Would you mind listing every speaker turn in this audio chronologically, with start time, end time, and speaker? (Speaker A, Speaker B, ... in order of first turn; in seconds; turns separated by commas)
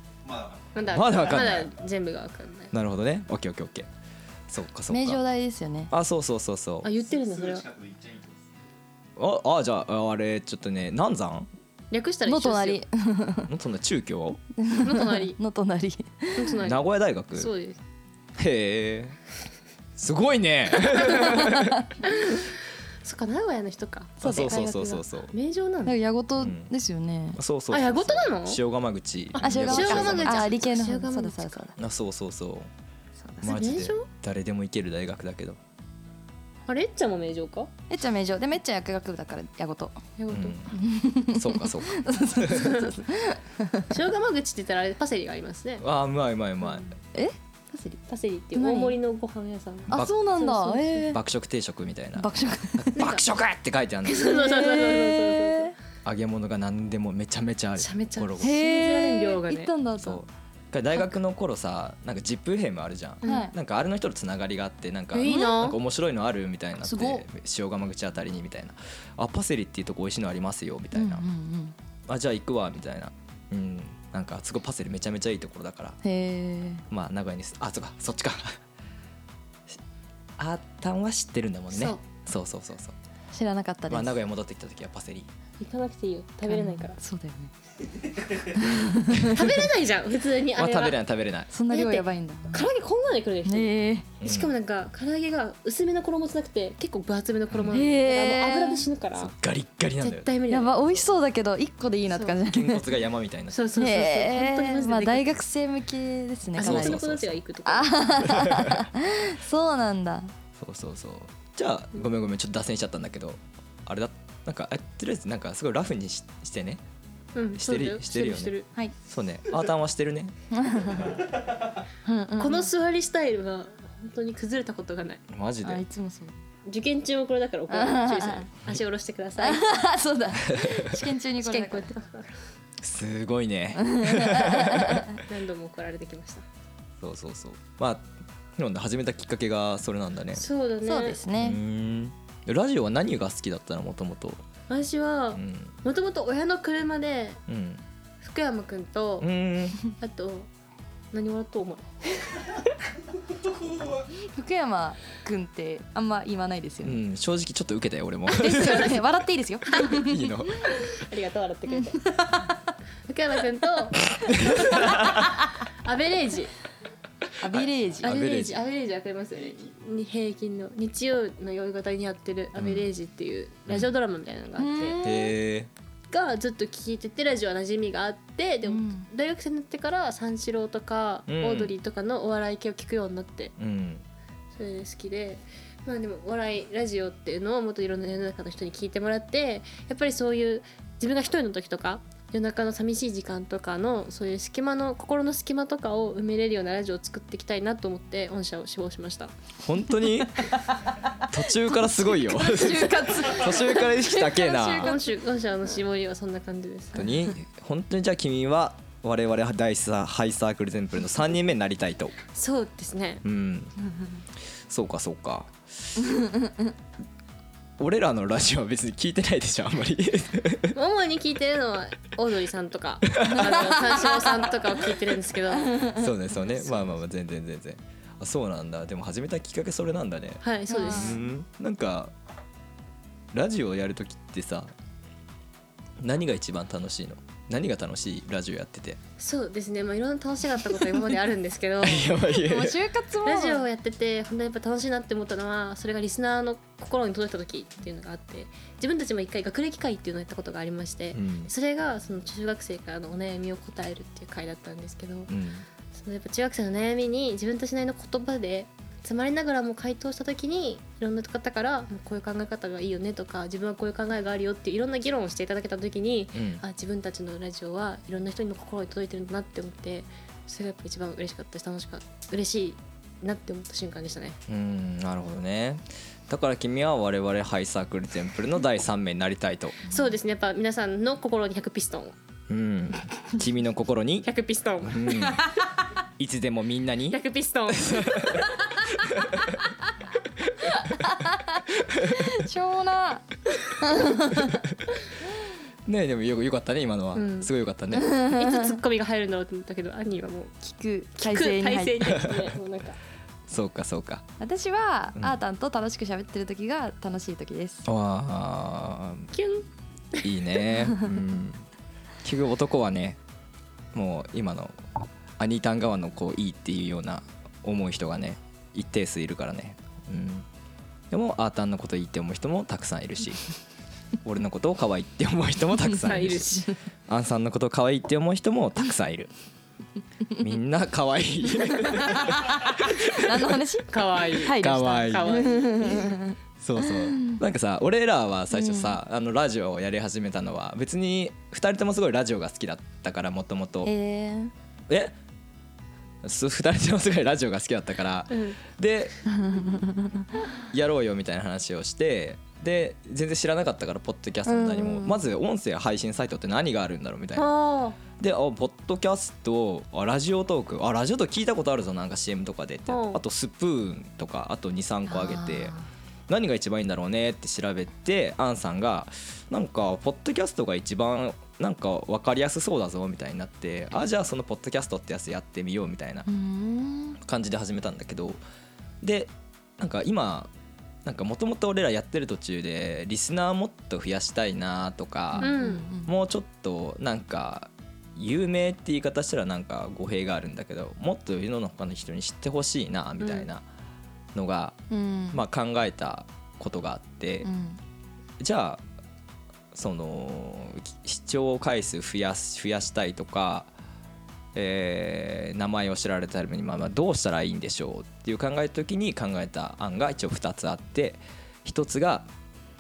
Speaker A: 0.2-1.4, Speaker B: 0.8-2.7, Speaker C: 0.9-1.7, Speaker C: 2.7-3.9, Speaker C: 4.5-5.2, Speaker D: 4.9-5.9, Speaker C: 5.9-6.9, Speaker B: 6.8-7.7, Speaker A: 7.0-8.5, Speaker C: 9.2-11.5, Speaker B: 11.9-12.8, Speaker D: 12.3-13.5, Speaker C: 13.5-14.4, Speaker D: 14.6-16.6, Speaker B: 14.8-15.4, Speaker B: 16.4-17.8, Speaker C: 16.6-17.5, Speaker C: 18.4-19.2, Speaker C: 20.0-21.9, Speaker D: 21.3-21.8, Speaker B: 22.0-26.0, Speaker C: 24.2-25.3, Speaker D: 24.2-25.0, Speaker D: 25.9-27.4, Speaker C: 26.4-26.7, Speaker C: 27.4-30.6, Speaker B: 27.7-28.6, Speaker B: 29.3-31.7, Speaker D: 29.4-31.8, Speaker C: 31.8-32.7, Speaker B: 33.4-34.1, Speaker C: 33.4-35.6, Speaker B: 36.7-37.7, Speaker D: 37.9-40.0, Speaker B: 40.2-40.7, Speaker C: 40.3-40.8, Speaker D: 40.7-44.0, Speaker C: 41.3-42.9, Speaker B: 43.9-45.8, Speaker C: 45.8-46.9, Speaker D: 47.1-48.0, Speaker B: 48.1-51.1, Speaker D: 48.5-49.0, Speaker C: 49.9-50.2, Speaker D: 49.9-51.2, Speaker C: 51.1-54.4, Speaker D: 52.2-53.1, Speaker B: 53.0-53.2, Speaker B: 54.0-55.7, Speaker D: 54.3-55.7, Speaker C: 56.0-58.6, Speaker B: 57.8-59.7, Speaker D: 58.4-60.2, Speaker C: 60.0-71.3, Speaker B: 63.2-63.5, Speaker D: 63.2-63.5, Speaker B: 65.1-65.8, Speaker D: 66.8-67.2, Speaker D: 70.9-71.8, Speaker C: 72.1-76.0, Speaker D: 76.0-76.8, Speaker C: 76.9-78.6, Speaker C: 80.4-83.0, Speaker B: 81.7-82.0, Speaker D: 83.3-84.1, Speaker C: 83.9-85.3, Speaker B: 85.6-87.0, Speaker D: 86.5-87.5, Speaker D: 88.4-89.5, Speaker B: 89.3-91.0, Speaker C: 90.6-91.5, Speaker D: 91.5-92.7, Speaker B: 91.7-99.3, Speaker D: 93.5-94.1, Speaker C: 94.2-94.5, Speaker C: 97.5-97.8, Speaker D: 97.7-98.9, Speaker C: 99.2-100.3, Speaker B: 100.0-100.8, Speaker D: 100.5-103.0, Speaker B: 102.1-102.4, Speaker C: 102.5-103.6, Speaker B: 103.5-105.3, Speaker D: 103.8-107.0, Speaker B: 106.6-108.1, Speaker C: 106.6-107.4, Speaker D: 107.7-110.3, Speaker C: 108.2-108.9, Speaker C: 110.6-116.8, Speaker B: 117.3-118.7, Speaker C: 117.5-120.3, Speaker D: 120.5-121.3, Speaker D: 122.0-122.7, Speaker B: 122.4-125.2, Speaker C: 125.3-125.8, Speaker D: 125.6-126.4, Speaker B: 126.7-129.8, Speaker D: 127.7-128.5, Speaker D: 129.4-131.9, Speaker C: 130.4-131.0, Speaker B: 131.4-132.4, Speaker C: 132.8-135.1, Speaker D: 133.8-135.2, Speaker B: 135.2-136.4, Speaker C: 137.0-140.4, Speaker B: 140.3-141.2, Speaker D: 140.8-141.6, Speaker C: 141.4-144.4, Speaker B: 144.7-147.4, Speaker C: 145.3-145.8, Speaker C: 147.5-147.8, Speaker B: 148.2-149.3, Speaker C: 149.2-149.8, Speaker B: 149.9-150.5, Speaker B: 151.1-152.8, Speaker D: 154.2-157.0, Speaker C: 156.8-159.0, Speaker D: 158.3-160.4, Speaker C: 159.8-160.8, Speaker B: 160.8-162.1, Speaker D: 161.7-162.6, Speaker B: 163.1-165.1, Speaker C: 164.2-165.1, Speaker B: 165.8-166.5, Speaker D: 167.4-168.2, Speaker C: 167.4-168.6, Speaker B: 168.0-175.0, Speaker C: 172.6-172.9, Speaker D: 174.6-175.4, Speaker C: 175.0-175.7, Speaker B: 176.1-183.6, Speaker D: 178.7-179.1, Speaker C: 181.3-181.7, Speaker C: 183.6-184.1, Speaker B: 184.6-199.3, Speaker C: 199.6-200.5, Speaker D: 200.4-205.1, Speaker C: 201.2-205.0, Speaker B: 204.8-207.2, Speaker C: 207.0-212.2, Speaker B: 212.3-213.2, Speaker C: 213.2-213.8, Speaker C: 214.7-216.0, Speaker D: 216.0-216.7, Speaker C: 217.8-220.8, Speaker B: 220.7-225.9, Speaker C: 223.1-223.6, Speaker D: 223.6-224.0, Speaker D: 225.6-226.1, Speaker C: 225.9-232.1, Speaker B: 230.4-231.2, Speaker D: 230.7-231.3, Speaker C: 233.3-234.7, Speaker C: 236.0-239.0, Speaker B: 239.2-242.1, Speaker C: 241.8-242.8, Speaker D: 242.3-243.7, Speaker B: 243.2-255.3, Speaker C: 251.1-251.5, Speaker C: 255.3-255.7, Speaker B: 255.9-274.4, Speaker C: 266.3-266.6, Speaker C: 274.5-279.8, Speaker B: 279.9-282.1, Speaker C: 282.5-284.3, Speaker B: 284.2-285.6, Speaker C: 284.8-285.5, Speaker C: 286.2-289.6, Speaker B: 287.1-288.5, Speaker D: 290.9-294.6, Speaker C: 291.8-292.4, Speaker C: 294.5-294.8, Speaker C: 295.9-298.2, Speaker B: 297.1-297.5, Speaker D: 297.9-298.8, Speaker B: 298.2-300.6, Speaker D: 300.6-302.2, Speaker B: 301.2-303.0, Speaker C: 303.5-304.3, Speaker D: 304.4-307.9, Speaker C: 307.9-309.3, Speaker B: 309.3-310.4, Speaker C: 310.2-311.7, Speaker C: 312.2-313.2, Speaker C: 313.9-314.8, Speaker C: 315.4-320.5, Speaker C: 321.1-323.5, Speaker C: 324.2-329.3, Speaker B: 326.1-326.8, Speaker C: 330.4-333.6, Speaker D: 331.6-337.4, Speaker B: 333.9-336.1, Speaker C: 334.5-336.1, Speaker C: 336.6-343.9, Speaker D: 338.5-339.0, Speaker D: 343.8-344.5, Speaker C: 344.9-345.1, Speaker C: 346.2-349.3, Speaker B: 348.3-348.6, Speaker D: 349.4-350.3, Speaker C: 350.7-357.5, Speaker B: 357.4-358.0, Speaker C: 358.2-365.8, Speaker B: 362.9-363.2, Speaker D: 365.1-365.9, Speaker C: 366.3-376.3, Speaker D: 376.3-377.2, Speaker C: 377.2-378.4, Speaker C: 379.0-380.5, Speaker C: 381.1-393.6, Speaker D: 385.3-386.1, Speaker B: 385.4-385.9, Speaker B: 393.2-393.5, Speaker C: 394.3-394.8, Speaker D: 394.9-395.4, Speaker C: 395.3-397.5, Speaker D: 397.4-397.8, Speaker C: 398.4-398.8, Speaker C: 399.7-403.7, Speaker C: 404.6-412.3